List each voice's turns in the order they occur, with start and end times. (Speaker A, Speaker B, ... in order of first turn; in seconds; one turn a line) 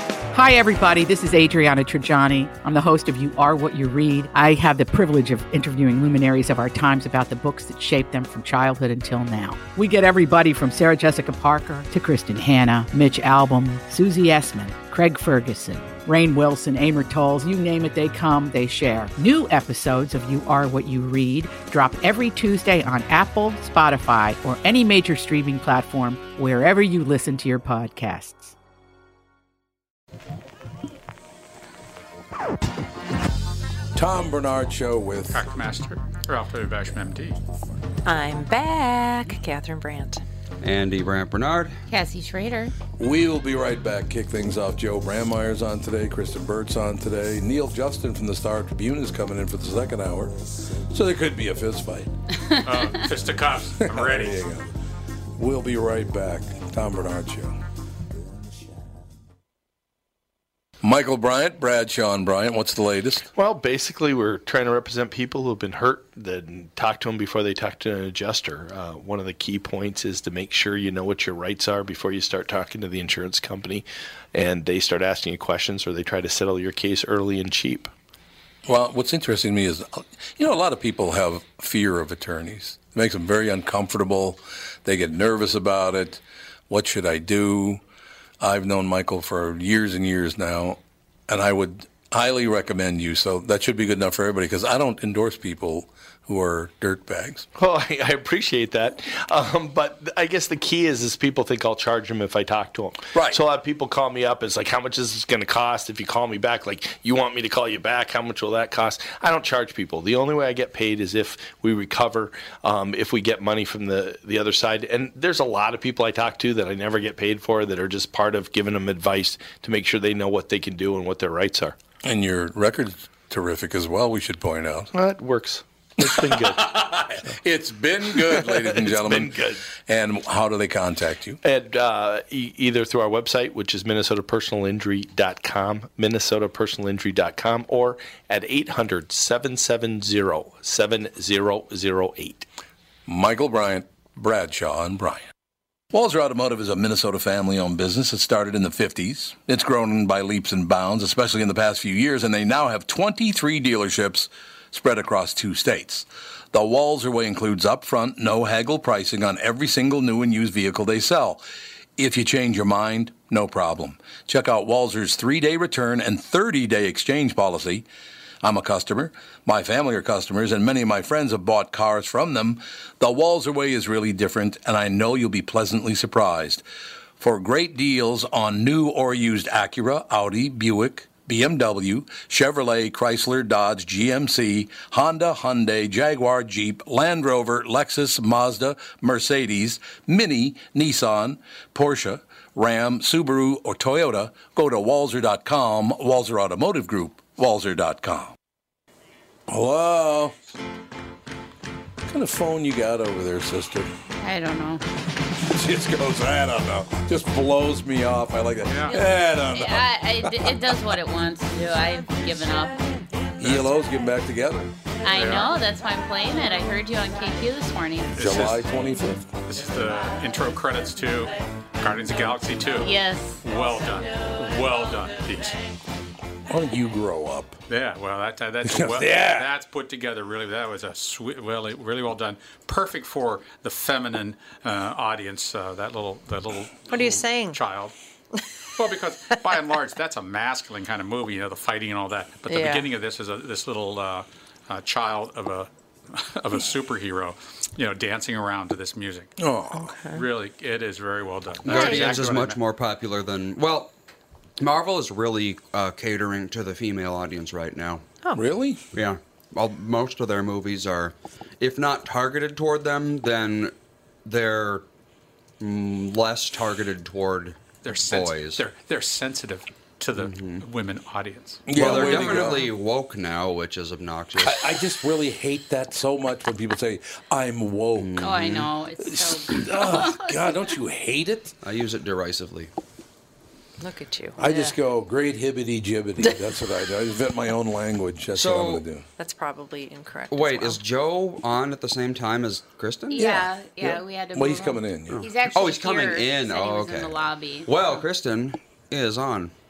Speaker A: 0.3-28.5
Speaker B: 33.9-35.4
Speaker C: 35.3-37.4
Speaker D: 38.0-40.2
Speaker E: 40.6-41.8
Speaker F: 41.9-42.7
Speaker B: 42.9-50.3
Speaker B: 50.9-52.1
Speaker F: 52.5-53.0
Speaker C: 52.6-54.4
Speaker B: 53.8-54.7
Speaker B: 55.4-57.5
Speaker B: 60.8-63.3
Speaker G: 63.3-77.9
Speaker B: 78.7-87.8
Speaker B: 88.4-97.5
Speaker G: 97.5-121.8
Speaker B: 103.1-103.4
Speaker B: 122.0-124.9
Speaker G: 124.9-127.0
Speaker B: 126.0-131.4
Speaker G: 128.1-129.6
Speaker G: 131.4-142.5
Speaker B: 143.1-145.3
Speaker B: 145.9-161.4
Speaker B: 162.0-167.8
Speaker B: 168.4-176.6
Speaker B: 177.2-198.3
Speaker B: 199.5-200.3
Speaker B: 202.1-203.9
Speaker F: 204.2-204.8
Speaker B: 205.4-210.7
Speaker C: 208.7-209.0
Speaker F: 209.5-213.2
Speaker B: 213.4-214.7
Speaker C: 213.4-213.7
Speaker F: 215.0-218.2
Speaker C: 215.1-215.6
Speaker C: 218.1-218.7
Speaker B: 218.2-219.3
Speaker C: 219.4-225.6
Speaker F: 222.8-223.4
Speaker B: 226.5-227.6
Speaker C: 227.7-237.9
Speaker B: 228.6-229.5
Speaker D: 236.9-237.6
Speaker C: 238.8-249.3
Speaker D: 242.5-242.9
Speaker B: 249.4-249.9
Speaker D: 249.7-250.2
Speaker C: 250.1-252.6
Speaker E: 251.6-253.9
Speaker D: 251.7-252.2
Speaker E: 254.6-258.0
Speaker B: 258.3-258.8
Speaker E: 258.9-263.7
Speaker E: 264.2-264.9
Speaker E: 265.6-268.6
Speaker C: 267.8-271.7
Speaker E: 270.1-270.6
Speaker B: 271.7-272.7
Speaker E: 271.7-274.8
Speaker F: 271.8-272.7
Speaker B: 274.4-281.6
Speaker E: 277.9-278.7
Speaker F: 278.2-280.5
Speaker E: 281.6-282.7
Speaker D: 283.8-284.8
Speaker B: 284.4-289.0
Speaker E: 288.3-288.8
Speaker D: 289.2-290.8
Speaker E: 290.3-293.2
Speaker F: 293.1-298.0
Speaker B: 293.1-295.3
Speaker E: 295.1-299.5